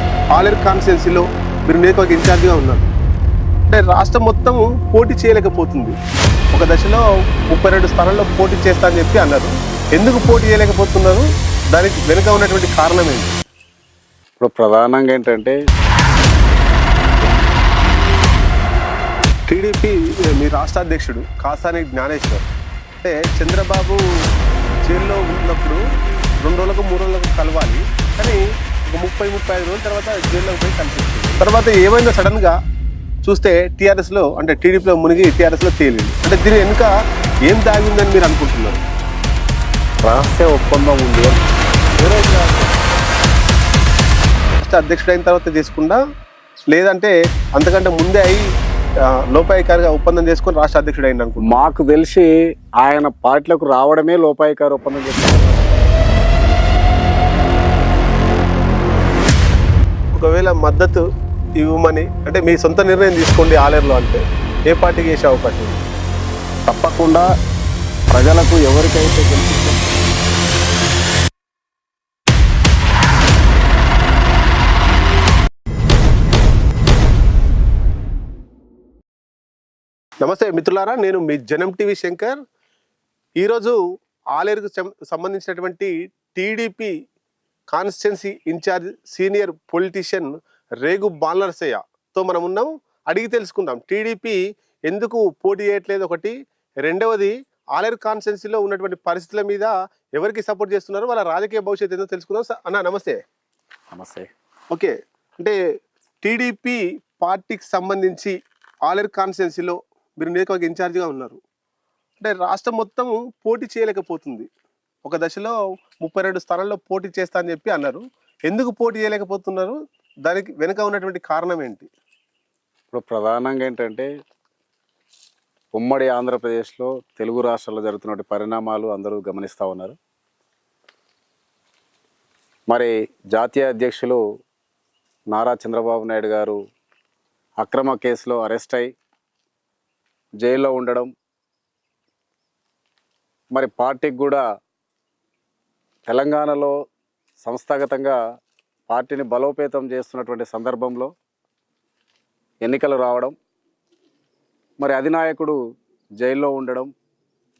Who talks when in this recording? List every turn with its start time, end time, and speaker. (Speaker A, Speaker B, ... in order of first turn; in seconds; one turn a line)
Speaker A: 0.3-2.9
Speaker A: 3.7-6.0
Speaker A: 6.5-13.4
Speaker B: 14.4-15.6
Speaker A: 19.5-22.4
Speaker A: 23.0-24.0
Speaker A: 24.9-25.8
Speaker A: 26.4-32.5
Speaker A: 33.2-36.9
Speaker A: 37.5-38.8
Speaker B: 40.0-41.4
Speaker A: 42.0-42.8
Speaker A: 44.6-46.0
Speaker A: 46.7-48.4
Speaker A: 49.3-51.5
Speaker B: 51.5-52.3
Speaker B: 52.8-55.8
Speaker A: 60.1-61.0
Speaker A: 61.6-65.8
Speaker B: 66.7-67.3
Speaker B: 68.1-69.9
Speaker A: 80.2-82.4
Speaker A: 83.4-83.8
Speaker A: 84.3-86.9
Speaker A: 87.7-96.3
Speaker A: 96.8-103.2
Speaker B: 103.9-104.3
Speaker A: 104.7-105.6
Speaker A: 106.2-108.3
Speaker A: 108.9-111.4
Speaker A: 112.2-114.5
Speaker A: 115.0-121.9
Speaker B: 122.9-124.1
Speaker B: 125.8-129.9
Speaker B: 132.7-134.2
Speaker B: 135.3-136.6
Speaker B: 137.6-138.9
Speaker B: 140.4-141.1
Speaker B: 143.5-144.4
Speaker B: 146.1-146.7
Speaker B: 147.4-148.2
Speaker B: 148.9-151.1
Speaker B: 152.6-153.3
Speaker B: 154.8-155.6
Speaker B: 156.2-156.9